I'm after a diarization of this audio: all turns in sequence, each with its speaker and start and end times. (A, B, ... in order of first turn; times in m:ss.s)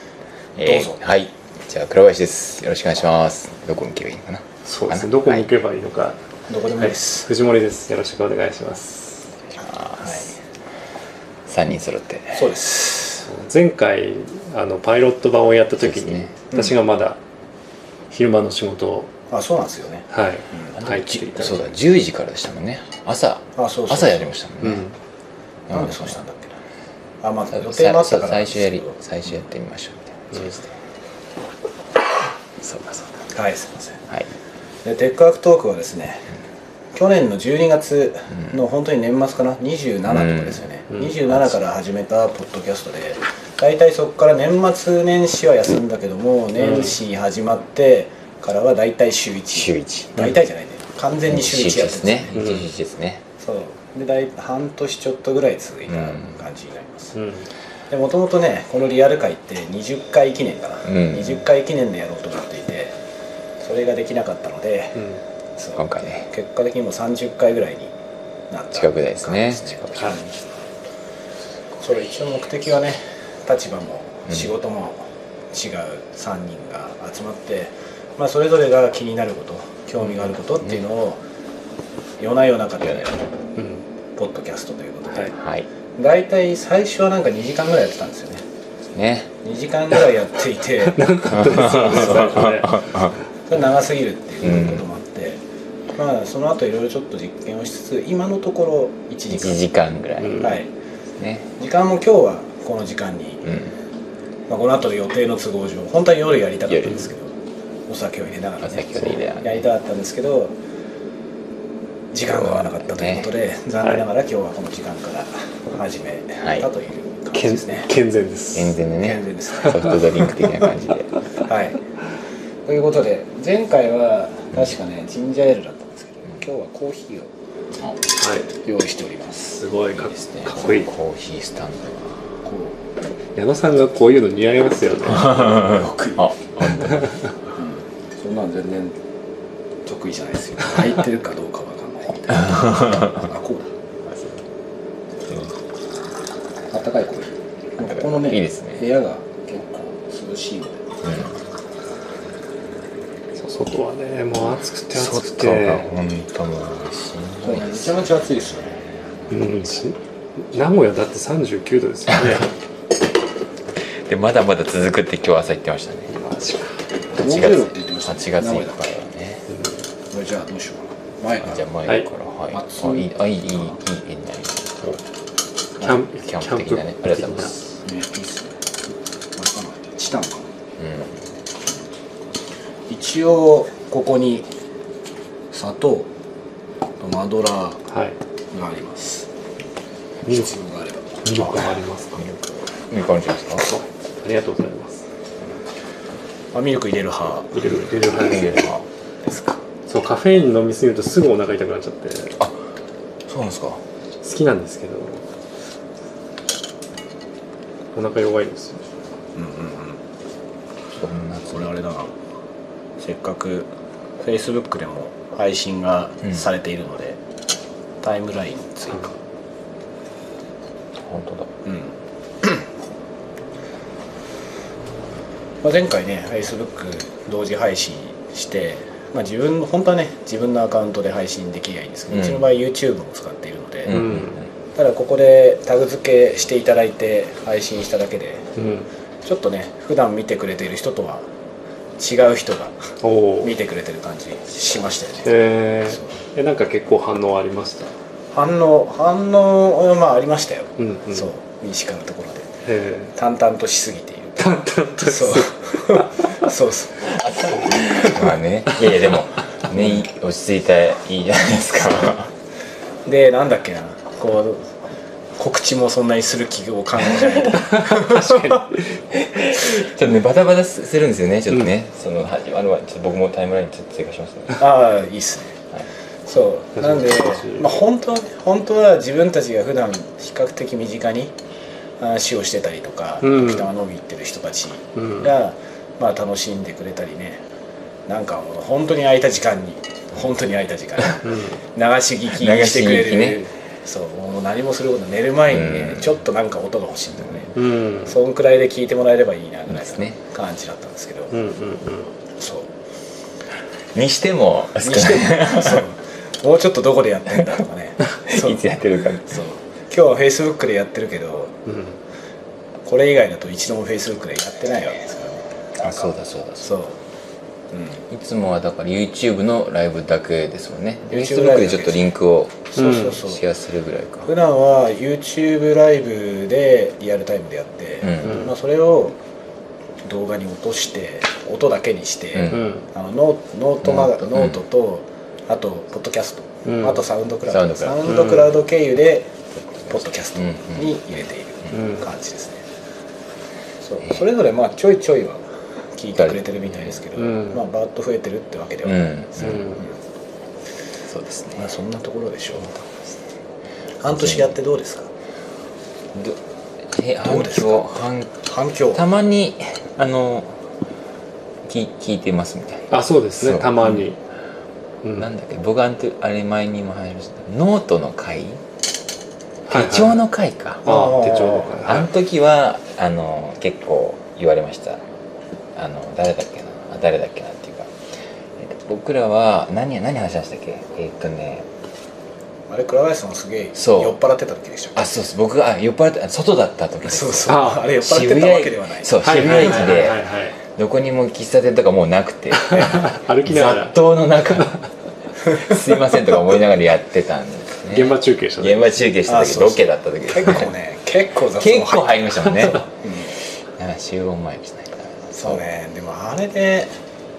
0:00.6-0:05.5 A
0:00.6-0:01.0 B
0:04.7-0:06.2 C
0:06.5-0:07.3 B
0:06.8-0:09.3 C
0:09.5-0:10.3 A
0:10.0-0:10.3 B
0:11.5-0:12.4 A
0:12.3-0:13.3 B
0:13.3-0:17.2 C
0:15.8-0:16.3 A
0:18.1-0:19.1 C
0:19.3-0:20.7 B
0:20.1-0:21.7 C
0:20.7-0:24.9 A
0:23.6-0:24.4 B
0:24.6-0:25.0 C
0:25.7-0:26.2 A
0:25.7-0:26.6 B
0:27.2-0:29.0 B
0:27.5-0:30.7 A
0:32.6-0:33.2 A
0:33.3-0:34.0 B
0:34.8-0:36.3 B
0:36.9-0:52.4 B
0:40.1-0:40.6 A
0:46.6-0:47.0 C
0:49.6-0:50.3 A
0:51.3-0:53.2 A
0:52.3-0:52.6 C
0:53.4-0:57.2 B
0:55.9-0:56.4 A
0:57.2-0:57.5 C
0:57.9-1:03.0 B
1:00.9-1:01.4 A
1:03.6-1:05.1 B
1:05.6-1:07.9 B
1:05.8-1:06.3 A
1:08.5-1:10.4 B
1:08.7-1:10.2 A
1:11.8-1:21.2 B
1:22.2-1:23.2 B
1:23.6-1:23.8 C
1:24.2-1:25.4 B
1:25.4-1:25.7 A
1:26.0-1:28.4 B
1:28.9-1:29.3 A
1:29.4-1:32.5 B
1:30.9-1:32.9 C
1:31.3-1:33.2 A
1:33.5-1:35.4 B
1:34.4-1:34.9 A
1:36.0-1:39.6 B
1:39.3-1:40.5 A
1:40.2-1:40.6 C
1:40.4-1:40.7 B
1:41.2-1:41.5 A
1:41.6-1:43.6 B
1:43.5-1:43.7 A
1:44.5-1:47.3 B
1:46.7-1:47.1 A
1:47.9-1:50.5 B
1:48.6-1:49.6 A
1:52.1-1:57.9 B
1:52.3-1:53.3 A
1:56.4-1:56.7 A
1:57.3-1:58.8 C
1:58.5-2:01.1 A
1:59.0-2:00.0 B
1:59.6-2:00.6 C
2:01.4-2:01.8 B
2:02.7-2:07.3 B
2:08.2-2:08.5 C
2:08.6-2:09.6 B
2:09.6-2:10.9 C
2:09.9-2:12.3 A
2:12.4-2:12.8 B
2:13.4-2:15.8 C
2:15.2-2:17.3 A
2:15.6-2:16.3 B
2:17.6-2:19.0 B
2:19.8-2:23.7 B
2:22.5-2:23.1 A
2:24.1-2:24.4 A
2:26.7-2:30.9 B
2:27.8-2:28.8 A
2:31.0-2:31.3 A
2:33.4-2:35.9 C
2:34.9-2:38.1 A
2:37.4-2:38.8 B
2:38.8-2:39.3 A
2:39.3-2:40.0 C
2:40.5-2:42.5 C
2:42.1-2:42.4 A
2:44.1-2:46.1 A
2:46.1-2:46.8 C
2:47.2-2:48.8 B
2:47.2-2:49.5 A
2:50.1-2:51.7 B
2:51.4-2:55.0 A
2:52.5-2:53.8 B
2:55.8-2:57.6 C
2:56.2-2:57.6 A
2:57.8-2:58.6 B
2:59.4-3:00.5 B
3:00.8-3:01.1 A
3:02.9-3:04.5 B
3:05.5-3:06.1 B
3:07.0-3:07.8 B
3:07.9-3:08.2 C
3:08.5-3:09.3 B
3:10.3-3:10.5 C
3:10.3-3:11.8 B
3:11.2-3:12.3 C
3:12.9-3:13.7 A
3:14.2-3:15.0 C
3:16.5-3:17.8 B
3:17.6-3:18.7 C
3:17.7-3:18.8 A
3:19.2-3:19.6 B
3:19.9-3:22.4 C
3:23.3-3:23.8 A
3:24.2-3:25.2 C
3:28.0-3:28.8 C
3:29.4-3:30.0 B
3:30.9-3:31.7 A
3:31.5-3:32.1 B
3:33.0-3:37.2 B
3:38.0-3:39.2 B
3:41.0-3:41.5 A
3:41.6-3:42.6 B
3:45.6-3:54.0 B
3:52.1-3:52.5 A
3:53.9-3:54.5 A
3:53.9-3:54.4 C
3:54.8-3:58.5 B
3:58.6-3:58.9 C
3:59.2-4:01.3 B
4:02.0-4:05.3 B
4:03.0-4:03.6 C
4:05.2-4:07.9 C
4:05.9-4:06.1 B
4:08.3-4:12.5 B
4:10.8-4:11.3 C
4:12.6-4:13.1 C
4:13.2-4:14.5 B
4:14.4-4:16.5 C
4:15.0-4:17.2 B
4:17.1-4:22.3 A
4:17.7-4:19.2 C
4:23.1-4:24.7 B
4:25.4-4:28.6 B
4:27.6-4:29.0 C
4:29.1-4:34.6 A
4:34.6-4:35.6 B
4:36.3-4:41.3 B
4:36.8-4:37.7 C
4:42.0-4:47.4 B
4:43.2-4:43.7 C
4:45.0-4:45.3 C
4:48.1-5:01.4 B
4:51.2-4:51.6 C
4:52.3-4:53.4 A
4:55.5-4:56.1 A
4:57.6-4:58.2 C
4:59.7-5:00.2 A
5:01.3-5:02.1 C
5:02.4-5:02.7 B
5:03.9-5:05.8 A
5:04.8-5:08.7 B
5:08.3-5:09.3 A
5:09.2-5:11.6 B
5:11.7-5:12.0 C
5:12.9-5:17.0 B
5:15.8-5:16.7 A
5:17.7-5:18.0 B
5:18.1-5:24.3 A
5:21.1-5:22.1 B
5:22.7-5:23.4 B
5:22.8-5:23.2 C
5:24.2-5:29.2 B
5:28.0-5:28.4 A
5:30.0-5:39.4 B
5:32.4-5:32.7 A
5:32.5-5:32.9 C
5:33.8-5:34.6 A
5:36.7-5:37.0 C
5:37.5-5:38.2 A
5:38.1-5:38.5 C
5:39.9-5:42.6 B
5:40.4-5:41.1 A
5:41.7-5:42.0 C
5:43.8-5:45.4 B
5:46.0-5:49.1 B
5:46.2-5:47.0 A
5:47.2-5:47.6 C
5:48.8-5:49.8 A
5:49.4-5:49.8 C
5:51.1-5:51.7 A
5:51.6-5:52.8 B
5:52.6-5:53.2 A
5:54.0-5:54.6 A
5:54.0-5:55.1 B
5:56.1-5:58.4 A
5:57.2-5:57.8 B
5:58.4-5:59.1 B
5:58.9-6:00.6 A
6:01.6-6:04.1 A
6:02.9-6:04.2 C
6:05.0-6:05.3 C
6:05.2-6:08.6 A
6:09.7-6:10.2 C
6:09.7-6:10.9 A
6:10.8-6:11.8 B
6:10.8-6:12.1 C
6:11.8-6:15.0 A
6:15.8-6:18.0 A
6:18.6-6:21.7 A
6:22.7-6:25.1 B
6:23.8-6:24.2 A
6:25.0-6:34.8 A
6:27.0-6:30.0 B
6:27.5-6:27.9 C
6:29.2-6:30.6 C
6:32.6-6:34.8 C
6:35.4-6:35.7 B
6:35.5-6:40.7 A
6:37.9-6:39.0 C
6:39.2-6:43.3 B
6:41.5-6:42.9 A
6:43.7-6:45.6 A
6:45.3-6:46.9 B